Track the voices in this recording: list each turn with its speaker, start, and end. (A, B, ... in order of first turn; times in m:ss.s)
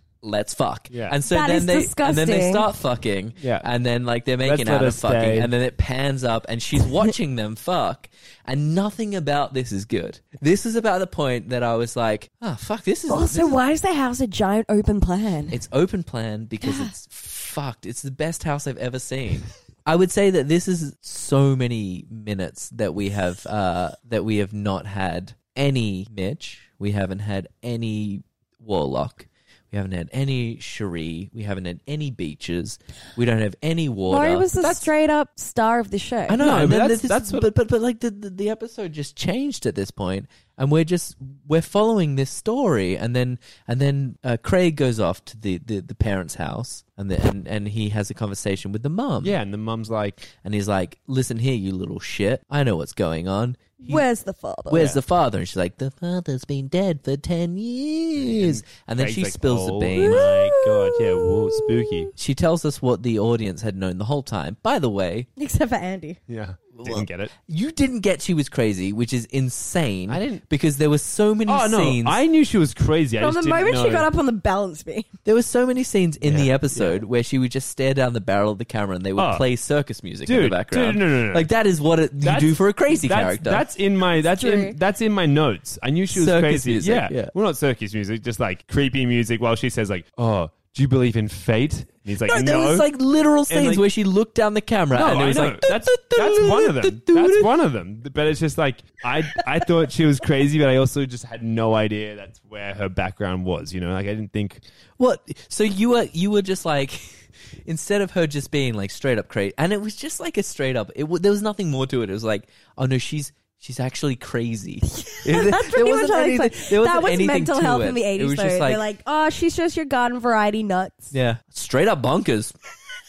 0:00.2-0:13.6 A
0:00.9-0:01.2 B
0:01.3-0:02.7 C
0:03.4-0:03.7 B
0:04.4-0:05.5 B
0:13.1-0:15.6 C
0:15.5-0:34.9 A
0:16.6-0:16.9 C
0:34.1-0:36.4 C
0:36.3-0:49.4 A
0:36.4-0:37.5 B
0:49.2-0:50.3 B
0:50.4-0:54.0 A
0:53.8-0:55.0 C
0:54.7-1:00.3 A
0:54.7-0:55.0 B
0:58.2-1:02.1 B
1:00.0-1:02.1 C
1:02.2-1:05.3 A
1:05.4-1:06.2 C
1:06.3-1:07.3 B
1:06.7-1:12.2 A
1:10.1-1:10.4 B
1:11.5-1:14.1 B
1:13.2-1:15.1 C
1:15.2-1:23.6 A
1:16.2-1:17.0 B
1:19.2-1:19.4 B
1:20.3-1:21.5 B
1:22.2-1:32.9 B
1:24.2-1:24.8 C
1:26.1-1:27.3 A
1:32.3-1:37.5 A
1:33.5-1:33.8 B
1:34.9-1:44.6 B
1:45.0-1:47.0 A
1:47.6-1:58.8 A
1:54.8-2:01.1 C
2:01.1-2:02.5 A